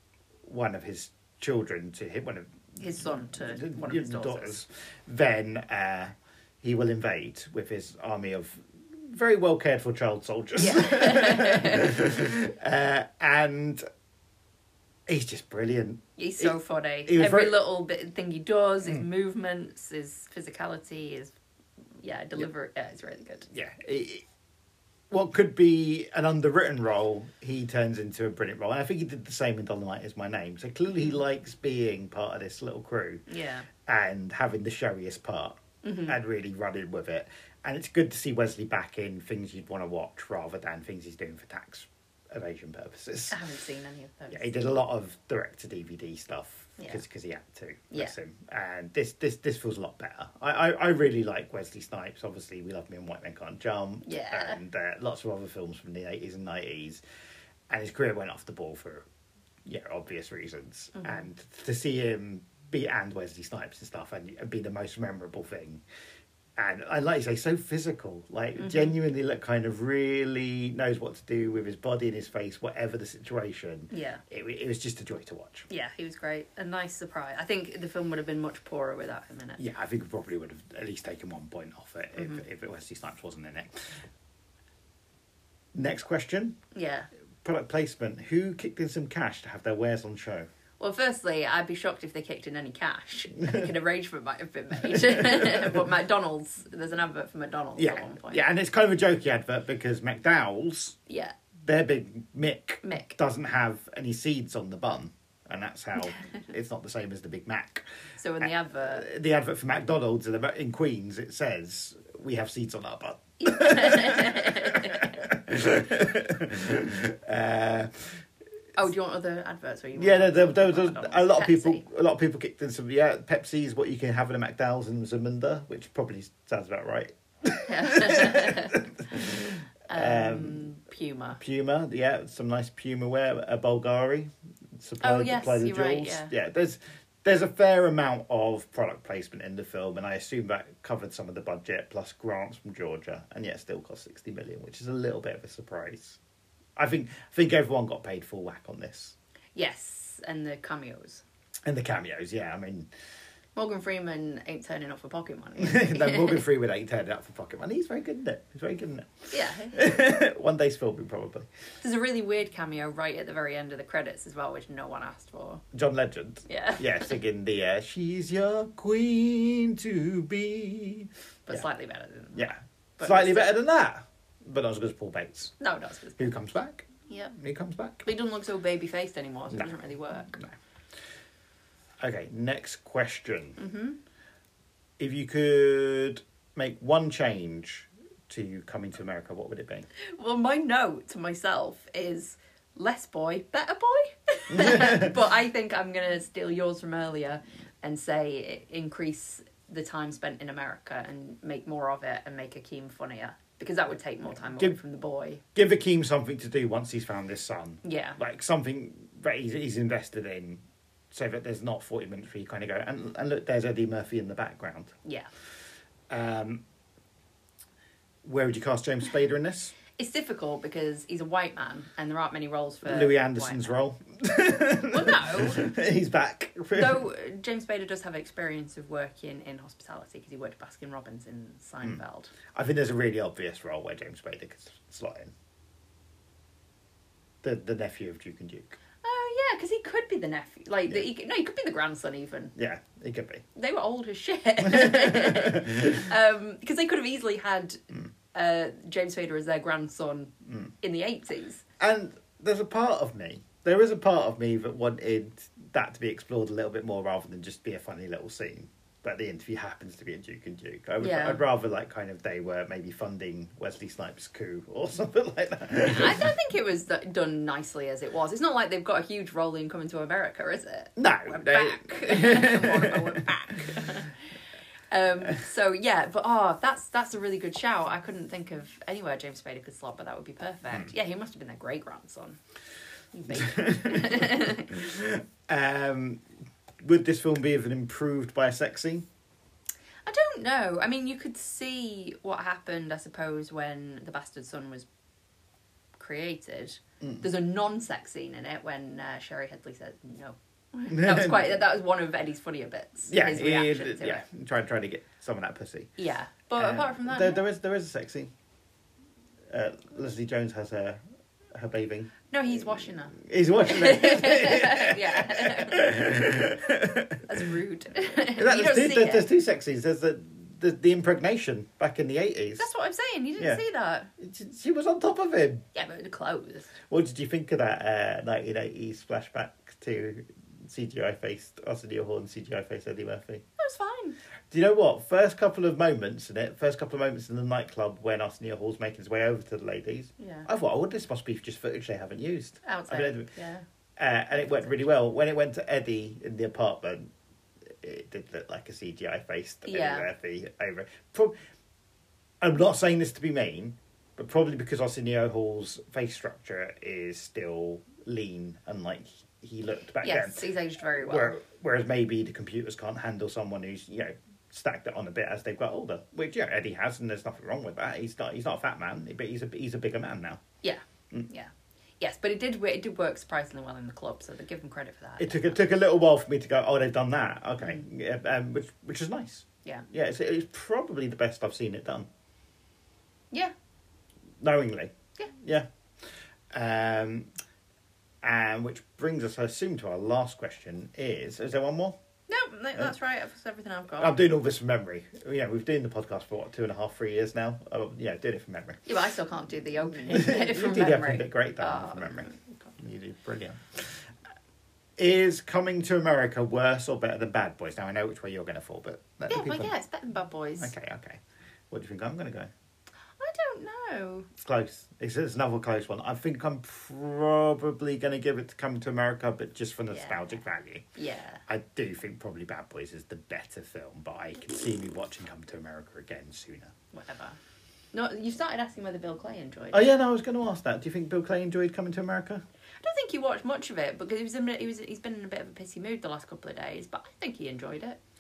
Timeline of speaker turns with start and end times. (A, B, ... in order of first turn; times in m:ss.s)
0:00.4-0:13.8 A
0:02.8-0:04.6 B
0:10.6-0:12.1 B
0:15.1-0:17.6 A
0:16.2-0:21.3 B
0:22.0-0:23.5 B
0:23.5-0:24.2 A
0:25.1-0:33.3 A
0:33.3-0:33.7 B
0:33.8-0:43.4 A
0:35.8-0:36.1 B
0:43.3-0:44.5 B
0:44.3-0:57.0 A
0:54.0-0:54.6 B
0:57.7-0:59.1 A
0:59.7-1:05.8 A
1:01.0-1:01.3 B
1:06.6-1:15.7 A
1:08.6-1:08.9 B
1:13.9-1:14.2 B
1:15.7-1:19.6 B
1:19.6-1:24.0 A
1:22.2-1:22.4 B
1:25.7-1:26.6 A
1:26.7-1:27.1 B
1:27.4-1:30.5 A
1:30.8-1:38.4 B
1:35.0-1:35.8 A
1:37.8-1:41.0 A
1:41.1-1:41.4 B
1:41.6-1:47.8 A
1:42.8-1:43.2 B
1:48.2-1:49.0 B
1:48.4-1:58.2 A
1:53.4-1:55.2 B
1:58.8-2:01.8 B
2:00.0-2:10.7 A
2:07.7-2:09.4 B
2:09.9-2:11.4 B
2:11.4-2:26.2 A
2:15.0-2:16.3 B
2:26.8-2:29.2 A
2:29.6-2:31.2 B
2:31.7-2:32.9 A
2:33.6-2:36.4 B
2:35.6-2:41.5 A
2:39.3-2:40.1 B
2:41.8-2:45.6 B
2:45.7-2:51.1 A
2:46.5-2:47.1 B
2:51.5-2:53.5 B
2:52.3-2:55.6 A
2:55.6-2:56.3 B
2:56.2-2:58.1 A
2:57.1-2:57.3 B
2:58.0-3:00.4 B
3:02.0-3:03.6 A
3:03.6-3:04.0 B
3:05.0-3:09.9 A
3:10.0-3:25.4 B
3:14.5-3:15.1 A
3:25.5-3:35.0 A
3:27.8-3:28.2 B
3:35.0-3:35.3 B
3:36.1-3:36.6 A
3:38.2-3:39.8 A
3:39.9-3:43.7 B
3:42.8-3:47.0 A
3:44.9-3:45.7 B
3:46.7-3:52.3 B
3:52.5-3:55.3 A
3:57.4-3:58.8 A
3:59.0-4:02.5 B
4:02.6-4:03.4 A
4:03.6-4:11.6 B
4:04.6-4:06.0 A
4:11.8-4:26.3 A
4:21.0-4:21.4 B
4:25.8-4:34.2 B
4:31.0-4:34.0 A
4:34.9-4:42.4 B
4:43.1-4:44.8 B
4:43.3-4:46.2 A
4:46.8-4:49.1 A
4:50.1-4:54.9 B
4:56.0-5:04.2 B
5:00.9-5:01.5 A
5:03.1-5:05.9 A
5:06.0-5:07.4 B
5:06.6-5:08.3 A
5:09.5-5:11.0 A
5:11.5-5:12.1 A
5:12.3-5:16.6 B
5:13.1-5:17.2 A
5:17.2-5:19.3 B
5:18.3-5:22.7 A
5:22.6-5:24.1 B
5:24.2-5:25.7 A
5:25.8-5:26.7 B
5:26.9-5:33.4 A
5:33.6-5:34.2 B
5:34.5-5:43.3 A
5:40.2-5:40.5 B
5:42.6-5:43.6 B
5:44.0-5:47.1 A
5:44.3-5:44.8 B
5:47.7-5:51.4 A
5:49.6-5:50.1 B
5:52.4-6:00.4 A
6:00.0-6:01.4 B
6:01.0-6:10.4 A
6:10.6-6:15.6 B
6:15.2-6:22.1 A
6:24.4-6:25.7 A
6:26.5-6:27.3 A
6:28.2-6:32.0 A
6:32.3-6:34.2 B
6:34.0-6:38.8 A
6:38.9-6:42.6 B
6:40.0-6:44.0 A
6:45.0-6:49.7 A
6:49.3-6:50.7 B
6:50.6-6:51.2 A
6:51.7-6:52.5 A
6:53.2-6:54.3 B
6:54.4-7:00.9 A
6:59.9-7:00.4 B
7:01.0-7:01.4 B
7:01.5-7:06.8 A
7:06.9-7:07.4 B
7:07.9-7:09.8 B
7:09.7-7:12.4 A
7:12.8-7:18.0 B